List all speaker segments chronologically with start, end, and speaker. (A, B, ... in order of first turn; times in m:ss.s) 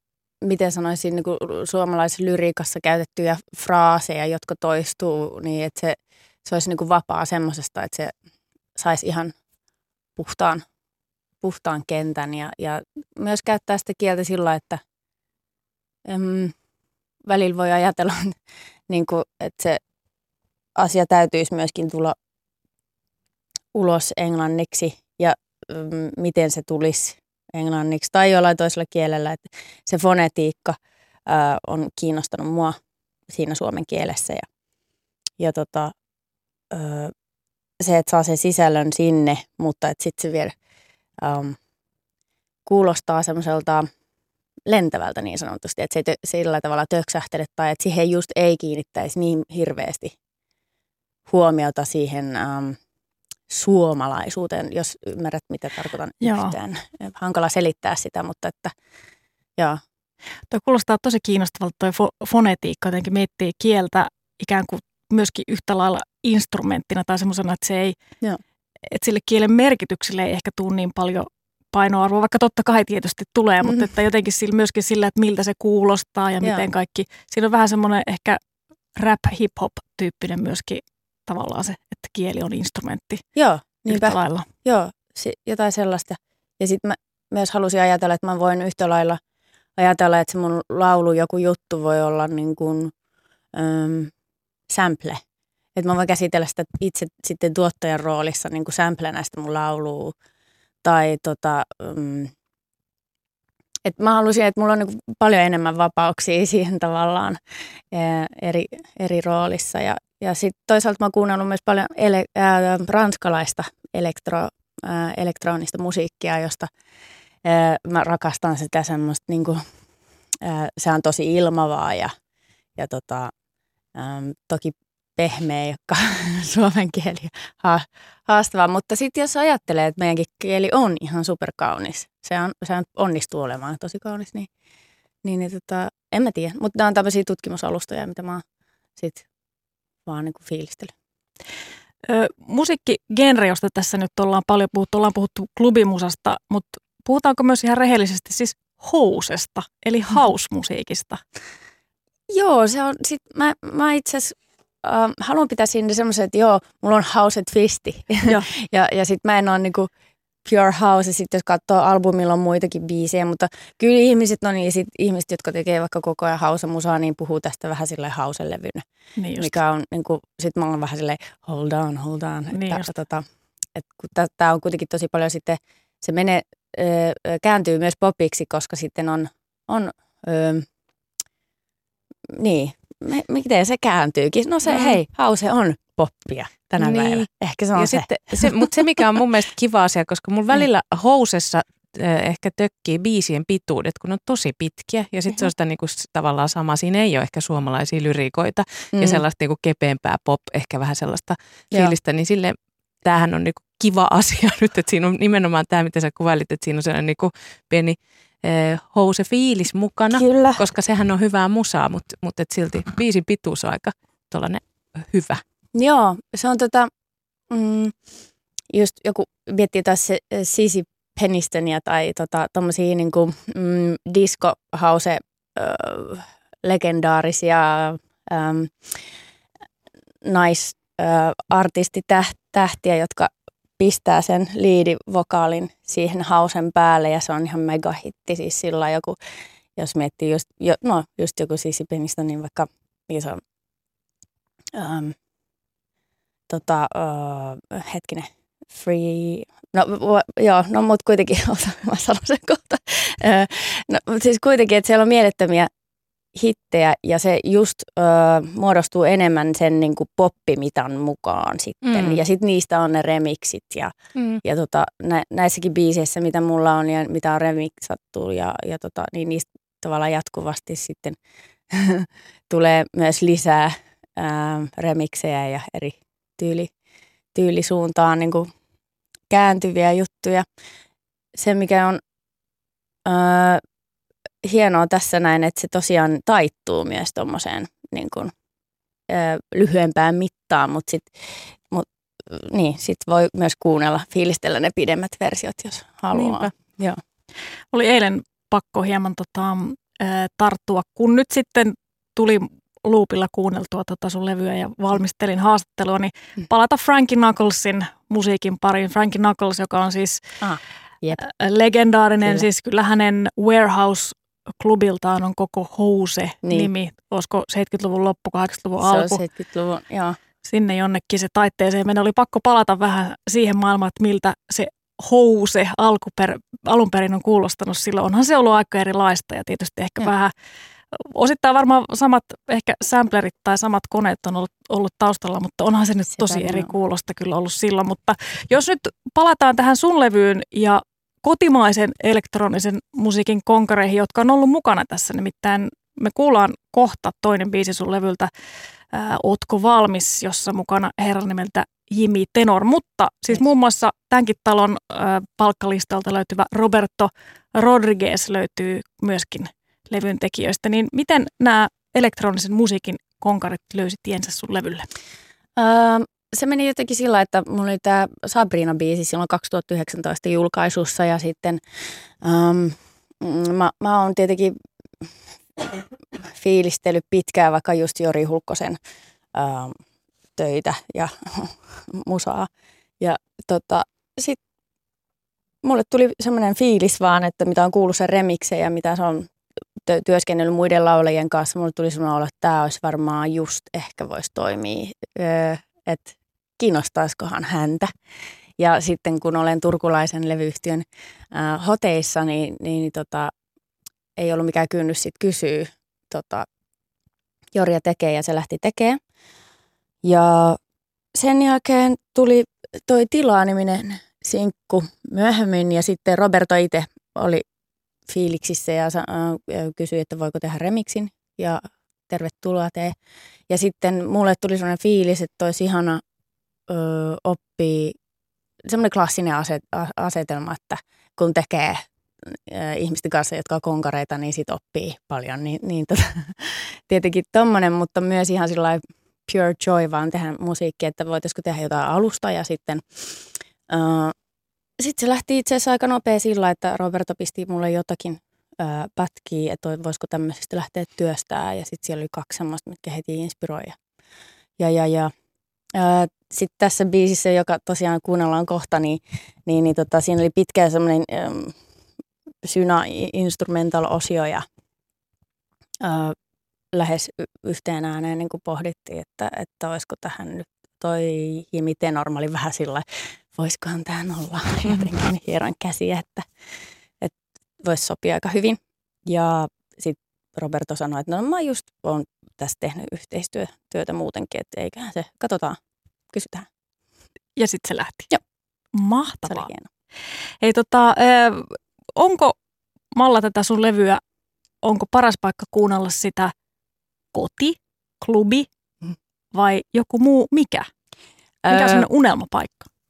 0:00.4-0:08.1 A
0:08.8-0:09.3 A
0:10.2-0:10.6 A
0:11.4-0:14.8 A
0:16.1-0:16.5 A
0:17.3-0:18.4 A
0:18.9-0:19.8 A
0:20.8-0:22.2 A
0:23.7-0:32.8 A
0:33.3-0:34.4 A
0:35.4-0:35.9 A
0:36.7-0:37.1 A
0:37.8-0:40.6 A
0:41.2-0:41.6 A
0:42.6-0:43.8 A
0:44.7-0:50.2 A
0:51.3-0:52.8 A
0:53.5-0:58.7 A
0:56.2-0:56.6 B
1:00.5-1:08.0 B
1:08.9-1:18.4 B
1:19.0-1:23.2 B
1:23.4-1:29.2 A
1:23.9-1:24.5 B
1:29.8-1:32.9 A
1:33.6-1:34.1 A
1:34.7-1:35.2 A
1:35.8-1:40.1 A
1:40.8-1:42.3 A
1:43.8-1:47.4 A
1:47.9-1:56.7 A
1:57.4-1:59.6 A
2:00.4-2:02.1 A
2:02.8-2:03.3 A
2:04.0-2:14.5 A
2:15.2-2:18.4 A
2:19.0-2:19.2 A
2:20.1-2:20.9 A
2:22.1-2:31.2 B
2:32.3-2:39.9 A
2:40.4-2:48.8 A
2:49.2-2:49.6 B
2:49.4-2:53.2 A
2:52.5-2:52.9 B
2:53.8-3:00.6 A
3:02.3-3:08.7 A
3:04.7-3:05.0 C
3:06.8-3:35.4 C
3:18.9-3:19.2 A
3:30.2-3:30.6 A
3:35.7-3:36.9 A
3:37.5-3:37.9 A
3:38.7-3:49.0 A
3:50.2-3:59.2 A
3:59.8-4:03.4 A
4:04.8-4:05.2 A
4:06.5-4:15.7 A
4:16.4-4:31.2 A
4:21.8-4:22.2 C
4:24.2-4:24.4 C
4:31.7-4:36.7 A
4:37.3-4:38.5 A
4:39.3-4:40.5 A
4:41.4-4:42.0 A
4:43.0-4:43.6 A
4:44.4-4:48.3 A
4:49.1-4:57.0 A
4:56.1-4:56.5 C
4:57.7-5:10.2 B
5:10.4-5:11.2 A
5:11.2-5:19.2 B
5:12.2-5:12.5 A
5:16.4-5:16.7 A
5:18.8-5:20.2 A
5:20.4-5:30.3 B
5:30.9-5:48.3 B
5:36.2-5:36.7 A
5:48.9-6:04.9 B
6:05.6-6:11.6 A
6:12.2-6:14.6 A
6:16.3-6:18.8 A
6:19.3-6:19.8 A
6:20.4-6:22.5 A
6:23.0-6:24.4 A
6:25.6-6:29.3 A
6:29.9-6:37.9 A
6:38.6-6:43.3 A
6:44.2-6:46.5 A
6:47.5-6:49.0 A
6:50.0-6:50.6 A
6:51.2-6:57.4 A
6:58.1-7:03.0 A
7:03.5-7:06.0 A
7:06.7-7:08.0 A
7:08.7-7:24.1 A
7:24.8-7:33.8 A
7:34.6-7:35.1 A
7:35.8-7:41.6 A
7:42.4-7:44.4 A
7:45.8-7:46.2 A
7:46.7-7:56.3 A
7:57.0-8:05.6 A
8:06.1-8:06.5 A
8:07.4-8:08.1 B
8:08.7-8:09.5 B
8:09.3-8:09.7 A
8:10.4-8:12.4 B
8:13.0-8:14.0 B
8:14.6-8:16.3 B
8:17.1-8:18.5 B
8:19.3-8:20.7 B
8:21.4-8:21.9 A
8:21.5-8:22.7 B